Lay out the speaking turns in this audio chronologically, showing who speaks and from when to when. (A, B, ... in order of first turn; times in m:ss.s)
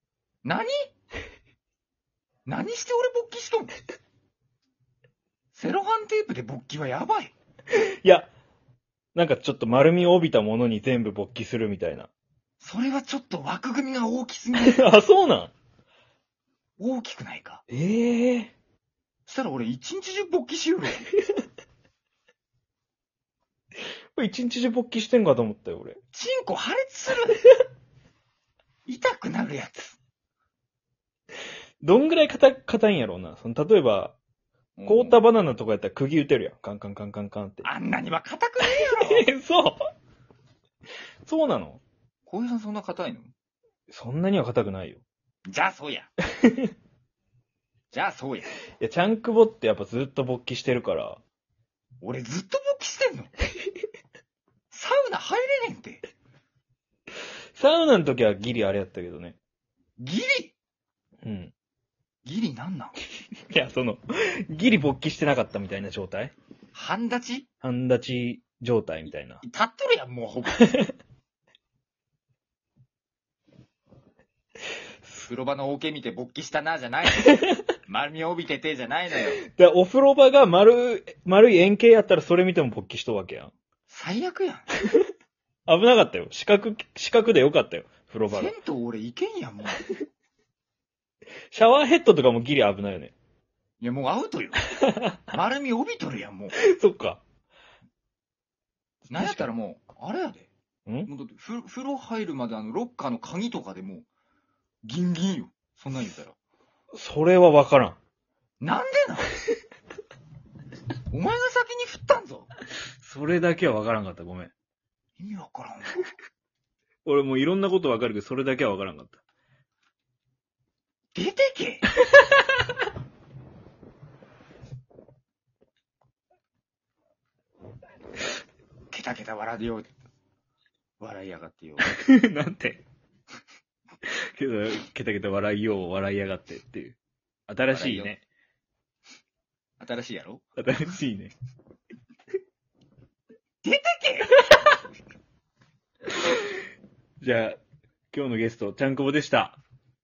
0:00.4-0:00.7 A
0:02.5-0:03.7 A
0:05.5-0:07.3 A
0:07.7-0:08.3 B
0:09.2-0:12.1 B
0:12.6-0:15.0 A
0:14.6-0:15.5 B
0:16.8-0:17.6 A
0:17.7-0:18.5 B
0:19.3-0:21.0 A
0:24.2-0:26.0 B
0:26.1-0:27.4 A
0:28.9-0:30.0 A
0:31.8-0:34.2 B
0:34.8-0:35.2 A
0:34.9-0:37.7 B
0:37.6-0:39.3 A
0:38.6-0:39.8 B
0:41.2-0:41.8 B
0:42.3-0:43.3 A
0:43.9-0:45.0 B
0:45.5-0:46.1 A
0:46.4-0:46.7 B
0:47.9-0:48.5 A
0:48.8-0:51.2 B
0:52.0-0:53.3 A
0:54.7-0:56.0 A
0:57.6-0:59.4 B
1:00.0-1:00.6 A
1:01.2-1:01.5 B
1:02.2-1:03.0 A
1:03.5-1:06.3 B
1:06.7-1:07.5 A
1:07.6-1:09.4 B
1:09.4-1:10.8 A
1:15.2-1:19.4 A
1:17.2-1:17.5 B
1:19.4-1:23.5 B
1:23.9-1:24.7 A
1:25.7-1:28.6 B
1:28.3-1:29.8 A
1:31.5-1:33.1 B
1:33.8-1:34.6 A
1:34.8-1:35.2 B
1:35.3-1:36.6 A
1:36.6-1:37.2 B
1:39.1-1:39.5 B
1:39.1-1:40.5 A
1:41.1-1:44.1 A
1:44.8-1:46.4 A
1:46.9-1:48.0 B
1:48.6-1:49.3 A
1:51.1-1:52.5 A
1:53.0-1:54.5 B
1:55.2-1:56.1 A
1:57.1-1:59.2 B
2:01.2-2:01.9 A
2:08.9-2:09.9 A
2:11.0-2:11.9 A
2:11.8-2:12.8 B
2:14.0-2:17.0 B
2:17.5-2:18.2 B
2:17.7-2:18.1 A
2:19.8-2:20.4 A
2:20.6-2:21.3 B
2:23.6-2:24.4 A
2:27.2-2:27.6 B
2:28.1-2:29.6 B